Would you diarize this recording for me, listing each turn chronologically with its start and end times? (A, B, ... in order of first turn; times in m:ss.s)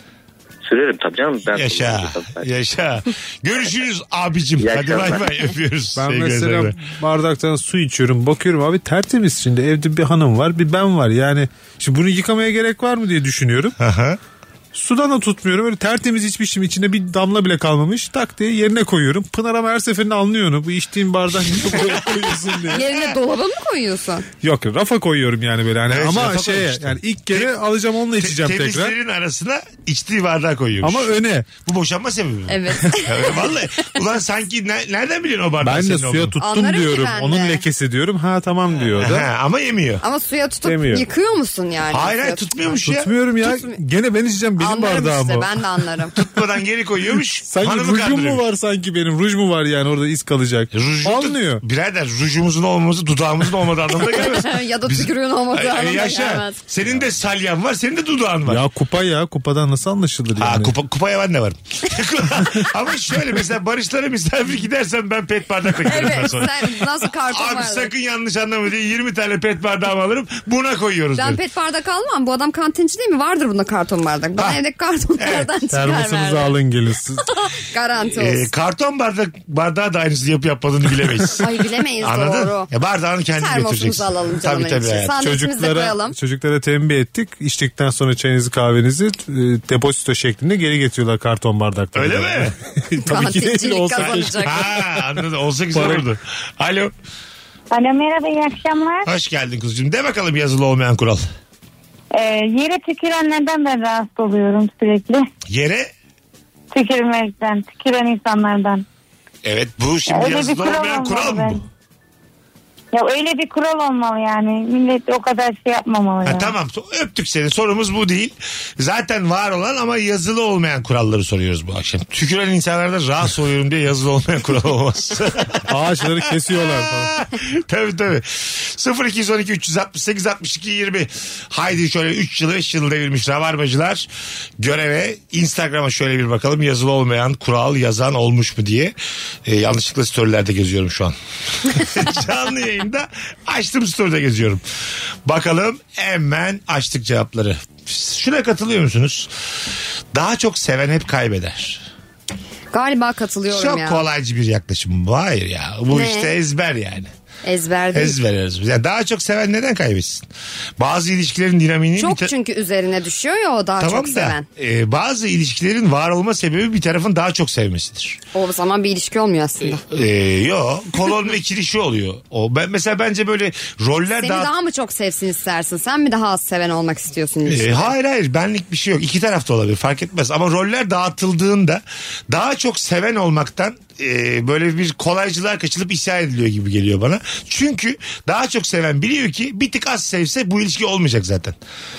0:00.6-0:02.5 A
0:01.5-0:06.8 B
0:04.6-0:05.5 A
0:06.0-0:13.8 C
0:13.8-0:14.2 B
0:14.7-0:22.8 C
0:21.6-0:22.2 B
0:22.7-0:24.2 D
0:22.7-0:23.1 B
0:24.4-0:28.9 C
0:25.9-0:27.6 B
0:28.2-0:36.3 B
0:30.8-0:31.5 C
0:32.5-0:33.5 D
0:35.6-0:39.3 C
0:36.4-0:37.6 D
0:38.9-0:40.0 B
0:40.0-0:42.4 D
0:40.6-0:41.0 C
0:41.9-0:43.1 B
0:42.8-0:45.6 C
0:43.4-0:43.8 D
0:44.6-0:46.1 D
0:46.1-0:48.4 B
0:47.4-0:51.6 C
0:50.7-0:58.6 B
0:53.9-0:56.6 D
0:58.5-1:00.7 C
1:00.4-1:11.4 B
1:05.8-1:07.9 D
1:11.2-1:16.6 D
1:15.2-1:15.5 B
1:15.7-1:17.2 C
1:17.2-1:18.5 D
1:18.0-1:25.2 B
1:21.4-1:22.7 D
1:23.3-1:26.2 D
1:25.2-1:35.1 C
1:31.9-1:32.5 B
1:33.0-1:34.7 D
1:34.0-1:36.9 B
1:35.7-1:36.0 C
1:37.7-1:39.1 E
1:39.0-1:41.2 B
1:42.1-1:45.3 E
1:45.5-1:45.9 B
1:46.7-1:48.8 E
1:49.4-1:51.6 B
1:50.1-1:51.6 E
1:52.9-1:56.5 E
1:56.2-2:24.6 B
2:05.6-2:07.1 C
2:25.2-2:29.3 B
2:30.1-2:31.8 B
2:32.7-2:34.0 D
2:33.5-2:37.1 B
2:35.9-2:36.3 D
2:37.4-2:38.2 D
2:37.9-2:40.3 B
2:40.8-2:42.3 B
2:42.0-2:44.4 D
2:43.8-2:48.2 B
2:48.3-2:49.8 D
2:49.7-2:54.5 B
2:54.2-2:57.9 D
2:57.4-3:11.6 B